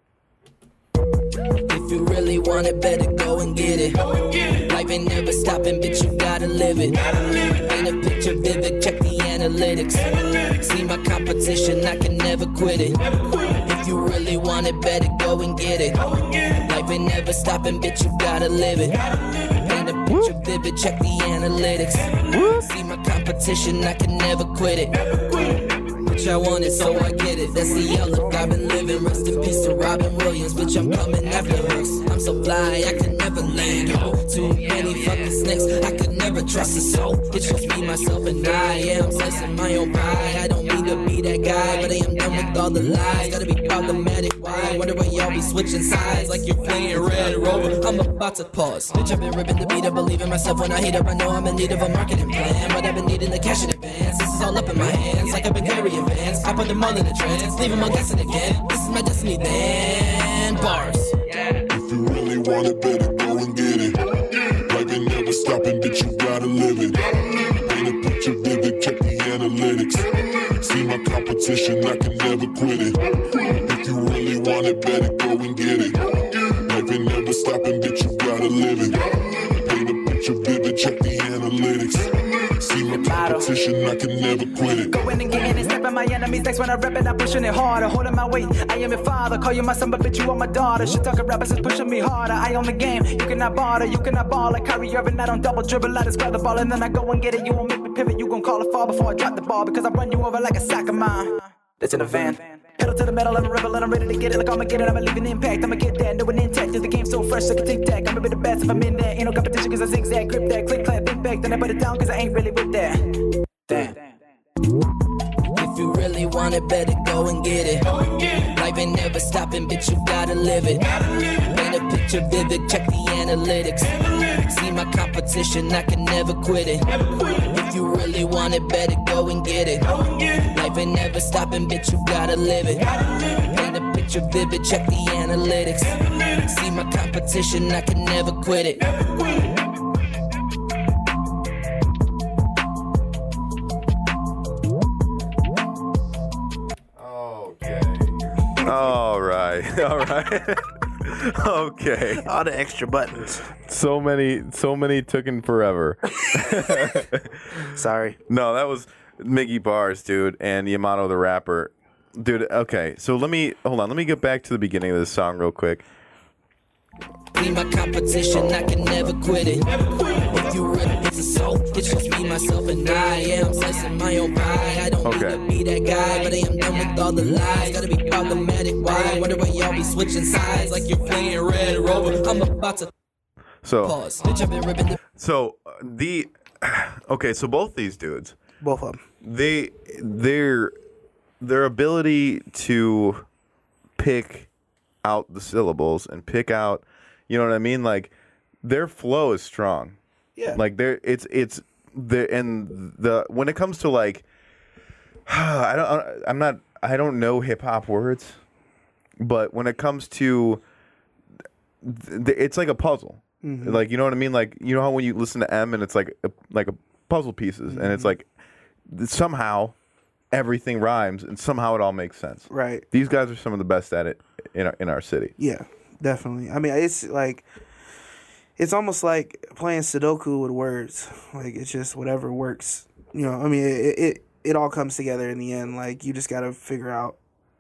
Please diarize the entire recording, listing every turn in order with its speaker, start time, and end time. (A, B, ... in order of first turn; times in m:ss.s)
0:01.6-1:01.6 A
0:22.3-0:22.7 B
1:01.7-1:25.3 C
1:22.9-1:23.5 D
1:24.9-1:54.2 D
1:55.5-2:19.5 A
2:26.9-2:32.2 B
2:32.1-2:33.5 E
2:33.6-2:37.6 B
2:36.2-2:36.9 E
2:37.6-2:38.2 E
2:38.3-2:45.8 B
2:47.3-3:02.9 A
2:55.0-2:55.4 B
3:03.6-3:04.0 B
3:03.8-3:05.0 A
3:05.2-3:08.4 B
3:08.6-3:09.0 E
3:09.2-3:10.7 B
3:11.4-3:13.2 B
3:14.0-3:14.5 B
3:15.0-3:20.0 B
3:20.5-3:24.2 B
3:25.2-3:28.4 B
3:29.2-3:30.6 B
3:31.8-3:38.2 B
3:33.4-3:33.8 E
3:37.7-3:38.1 E
3:38.9-3:39.8 B
3:40.3-3:45.3 B
3:42.5-3:42.8 E
3:45.4-3:47.4 E
3:48.6-3:57.2 E